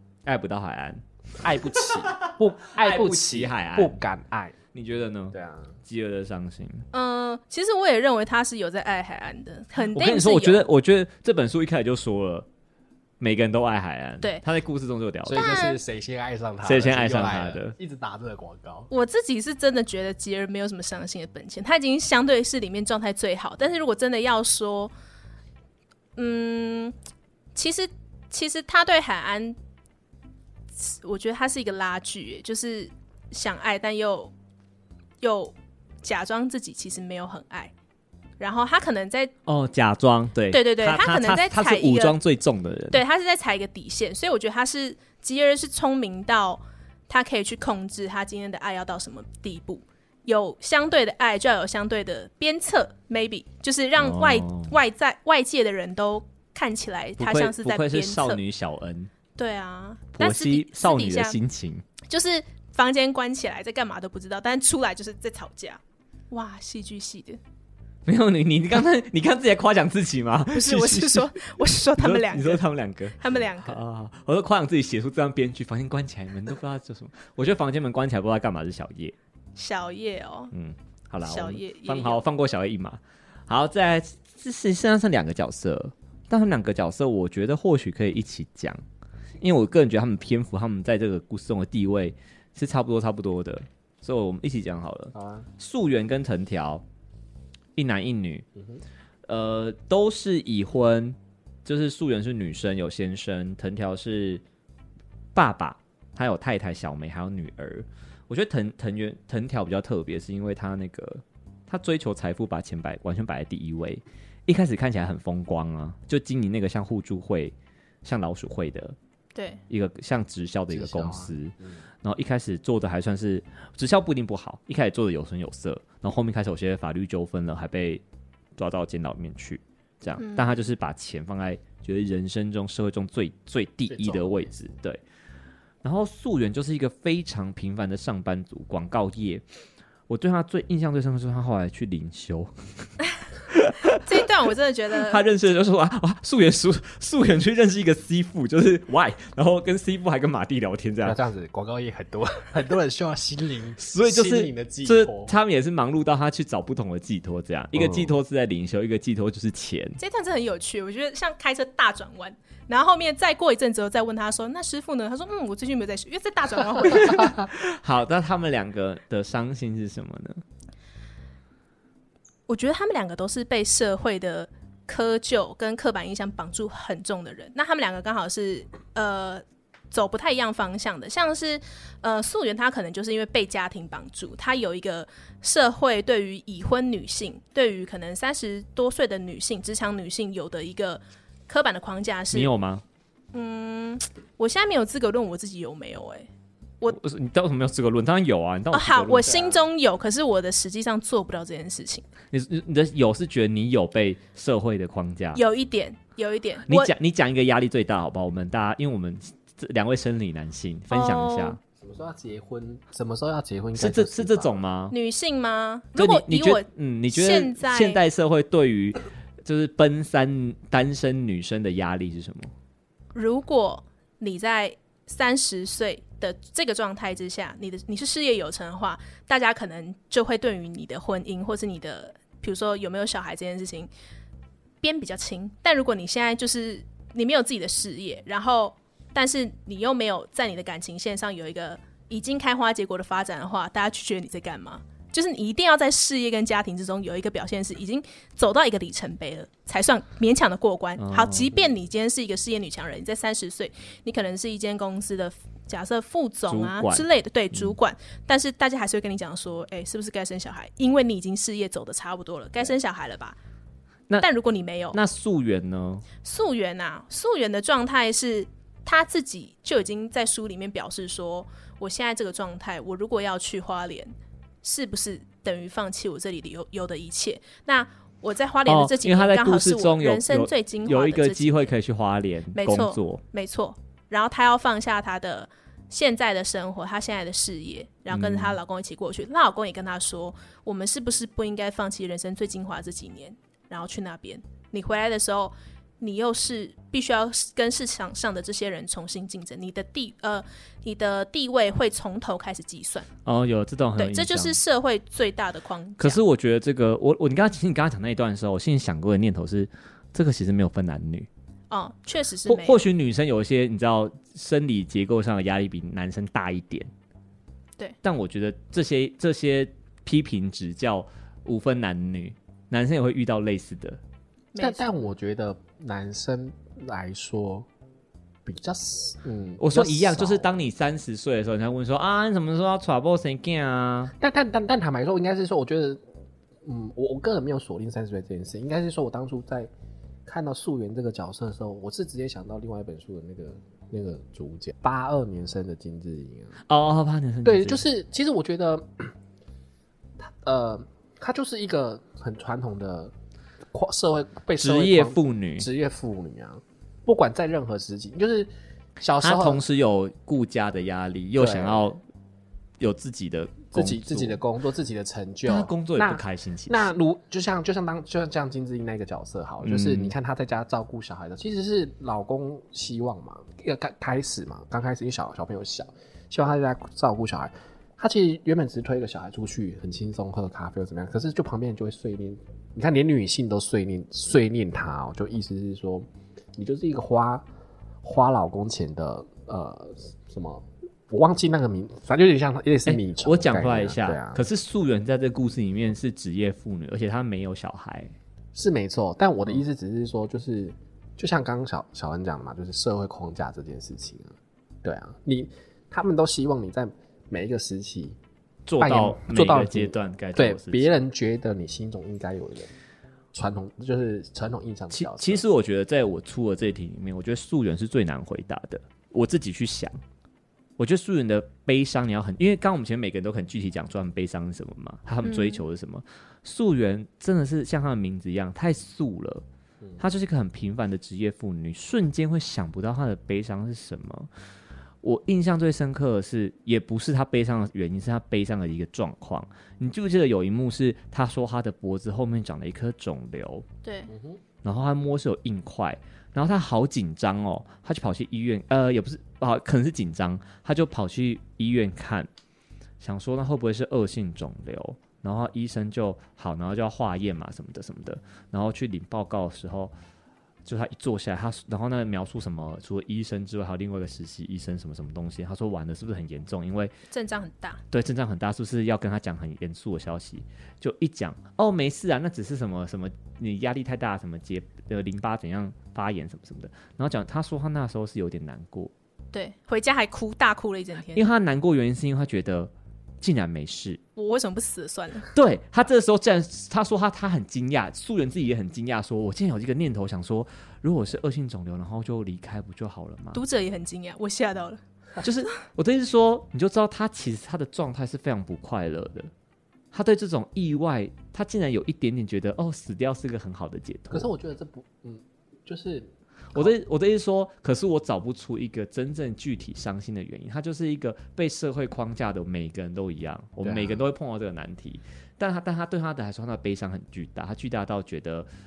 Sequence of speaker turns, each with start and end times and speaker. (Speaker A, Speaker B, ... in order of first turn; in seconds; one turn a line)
Speaker A: 0.3-4.0
Speaker B: 1.4-4.6
Speaker A: 4.7-5.3
Speaker B: 5.3-5.8
Speaker A: 5.9-6.9
Speaker C: 6.9-10.7
Speaker A: 9.9-12.5
Speaker A: 13.2-15.6
Speaker B: 15.3-18.9
Speaker C: 15.3-15.8
Speaker A: 16.6-17.8
Speaker C: 18.9-24.9
Speaker C: 26.2-26.9
Speaker C: 27.6-29.6
Speaker C: 30.8-34.3
Speaker C: 35.2-37.7
Speaker C: 38.4-39.3
Speaker A: 39.5-43.0
Speaker C: 40.5-42.2
Speaker C: 42.9-58.4
Speaker A: 54.0-54.8
Speaker A: 57.2-59.1
Speaker C: 59.4-61.4
Speaker A: 60.1-61.9
Speaker C: 62.1-67.4
Speaker A: 68.1-71.3
Speaker C: 70.5-72.6
Speaker A: 72.0-79.2
Speaker C: 73.2-73.8
Speaker C: 79.6-80.5
Speaker A: 80.5-88.8
Speaker C: 81.2-82.2
Speaker A: 89.4-96.8
Speaker B: 95.2-95.5
Speaker A: 97.8-98.5
Speaker B: 98.6-98.8
Speaker A: 99.3-104.4
Speaker A: 105.3-119.0
Speaker C: 119.3-119.6
Speaker A: 119.7-128.0
Speaker B: 120.7-121.8
Speaker A: 128.6-135.0
Speaker C: 130.2-130.5
Speaker B: 133.9-134.5
Speaker A: 135.8-139.4
Speaker A: 140.1-142.5
Speaker A: 143.5-144.0
Speaker C: 144.0-145.2
Speaker A: 145.1-151.2
Speaker B: 151.0-155.3
Speaker A: 153.8-160.0
Speaker B: 157.8-158.1
Speaker C: 160.0-167.3
Speaker A: 166.8-170.4
Speaker C: 172.5-192.5
Speaker A: 192.3-192.8
Speaker C: 193.3-196.3
Speaker A: 196.9-199.4
Speaker C: 198.7-202.1
Speaker B: 199.2-199.7
Speaker A: 202.3-205.4
Speaker C: 205.3-206.9
Speaker A: 206.7-211.6
Speaker C: 210.9-211.6
Speaker B: 211.8-214.5
Speaker A: 213.8-214.9
Speaker C: 214.9-218.0
Speaker A: 216.0-222.5
Speaker C: 223.1-233.9
Speaker C: 234.8-263.4
Speaker A: 251.0-251.6
Speaker A: 256.5-257.8
Speaker C: 264.2-265.0
Speaker A: 264.9-266.1
Speaker C: 266.2-281.7
Speaker A: 278.7-283.2
Speaker C: 282.5-303.1
Speaker A: 288.1-288.6
Speaker A: 303.2-304.6
Speaker C: 304.0-306.2
Speaker A: 306.0-311.3
Speaker C: 311.7-312.8
Speaker A: 312.5-316.9
Speaker A: 318.0-324.0
Speaker C: 324.5-324.8
Speaker B: 324.6-327.7
Speaker B: 328.5-330.6
Speaker A: 329.6-334.1
Speaker B: 334.2-336.0
Speaker B: 336.6-339.7
Speaker B: 340.3-346.6
Speaker A: 346.7-347.8
Speaker B: 347.4-349.1
Speaker B: 350.2-353.1
Speaker B: 353.7-359.6
Speaker A: 354.6-355.7
Speaker A: 359.2-362.0
Speaker B: 361.4-361.9
Speaker A: 362.8-364.4
Speaker B: 363.7-387.5
Speaker A: 365.5-366.9
Speaker A: 369.6-370.1
Speaker B: 388.0-394.4
Speaker A: 392.9-398.1
Speaker B: 398.6-408.2
Speaker A: 408.7-410.9
Speaker B: 408.8-412.7
Speaker B: 413.3-415.5
Speaker A: 414.9-419.9
Speaker A: 420.8-429.4
Speaker C: 425.2-425.6
Speaker A: 430.0-434.3
Speaker A: 435.0-443.6
Speaker C: 443.8-444.1
Speaker B: 444.1-444.4
Speaker A: 444.6-452.3
Speaker A: 453.0-459.9
Speaker A: 460.6-466.9
Speaker C: 467.1-467.8
Speaker A: 467.9-478.9
Speaker C: 479.3-481.3
Speaker A: 481.1-484.0
Speaker C: 484.2-485.3
Speaker A: 485.3-493.4
Speaker C: 493.3-494.8
Speaker A: 495.2-499.3
Speaker A: 499.9-504.3
Speaker B: 504.1-506.7
Speaker A: 506.5-518.5
Speaker B: 513.6-514.0